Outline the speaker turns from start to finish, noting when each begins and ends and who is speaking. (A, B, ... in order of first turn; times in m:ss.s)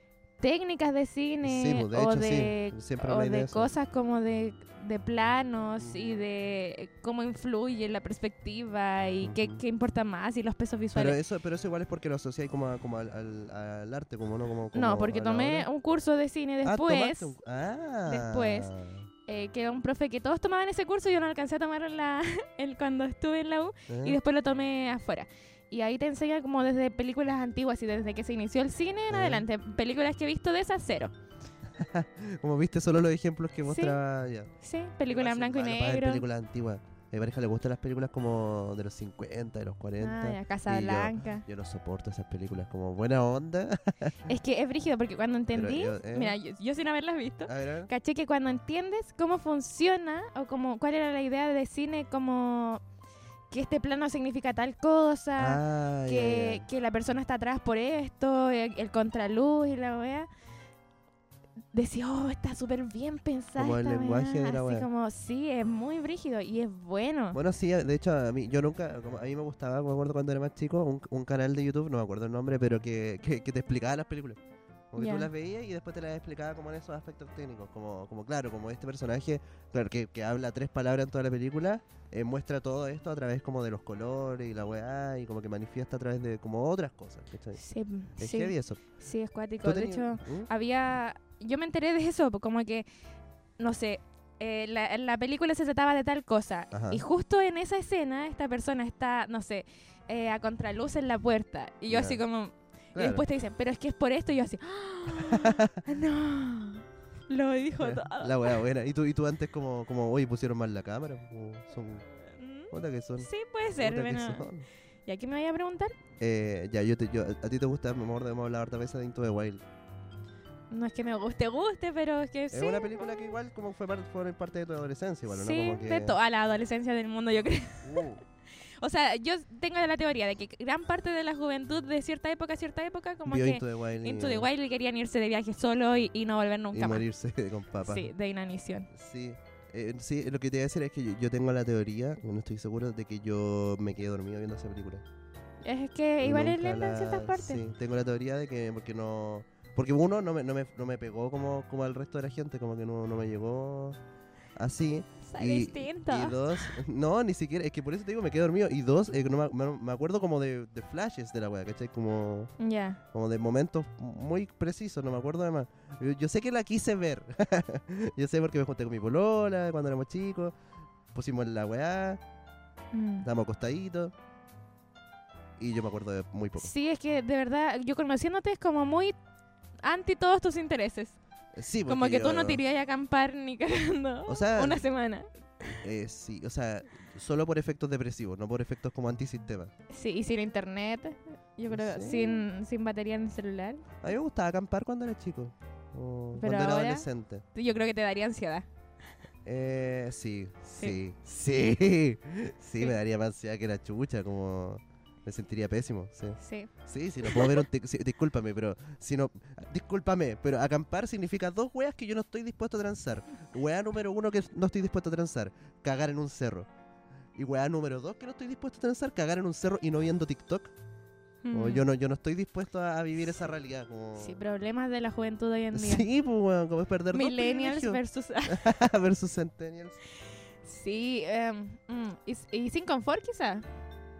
0:00.4-0:11.2 A
0:01.4-0:03.7 B
0:05.8-0:06.2 B
0:09.2-0:09.6 B
0:10.9-0:15.7 B
0:14.7-0:17.3 A
0:16.6-0:19.1 B
0:18.1-0:18.7 A
0:19.3-0:31.1 A
0:23.9-0:24.2 B
0:29.1-0:29.4 B
0:31.8-0:34.5 B
0:33.7-0:34.0 A
0:34.6-0:36.2 A
0:35.1-0:44.2 B
0:40.0-0:41.4 A
0:44.3-0:52.8 A
0:45.5-0:46.4 B
0:47.5-0:47.9 B
0:53.5-1:00.3 A
0:55.4-0:56.6 B
1:01.7-1:07.4 A
1:03.6-1:04.9 B
1:07.3-1:14.4 B
1:14.9-1:27.6 B
1:15.0-1:15.3 A
1:27.6-1:32.9 A
1:28.2-1:28.8 B
1:29.6-1:30.5 B
1:33.6-1:48.6 A
1:36.7-1:37.0 B
1:41.9-1:42.2 B
1:43.0-1:43.2 B
1:45.2-1:45.8 B
1:47.8-1:52.1 B
1:52.2-1:54.5 A
1:52.7-1:54.7 B
1:55.1-1:56.0 A
1:56.2-1:59.6 B
2:00.7-2:03.4 A
2:02.5-2:06.2 B
2:05.3-2:08.1 A
2:07.8-2:08.2 B
2:08.7-2:17.0 A
2:13.2-2:14.5 B
2:16.7-2:18.1 B
2:17.8-2:18.9 A
2:18.9-2:25.0 B
2:25.6-2:27.6 A
2:26.2-2:34.0 B
2:34.6-2:42.5 B
2:35.2-2:36.8 A
2:42.6-2:43.0 A
2:43.1-2:50.5 B
2:51.1-2:52.2 B
2:52.9-2:53.3 A
2:53.2-2:54.1 B
2:55.6-2:56.7 B
2:56.6-2:59.2 A
2:59.8-3:01.2 A
3:01.5-3:02.6 B
3:01.9-3:05.8 A
3:04.3-3:04.8 B
3:05.7-3:09.7 B
3:09.9-3:13.9 A
3:11.7-3:12.5 B
3:14.0-3:17.4 B
3:16.4-3:18.7 A
3:19.4-3:36.7 B
3:26.4-3:26.7 A
3:27.2-3:27.6 A
3:37.4-3:40.7 B
3:41.4-3:41.8 A
3:41.5-3:44.4 B
3:44.2-3:46.1 A
3:45.7-3:50.0 B
3:47.1-3:48.7 A
3:50.6-3:53.7 A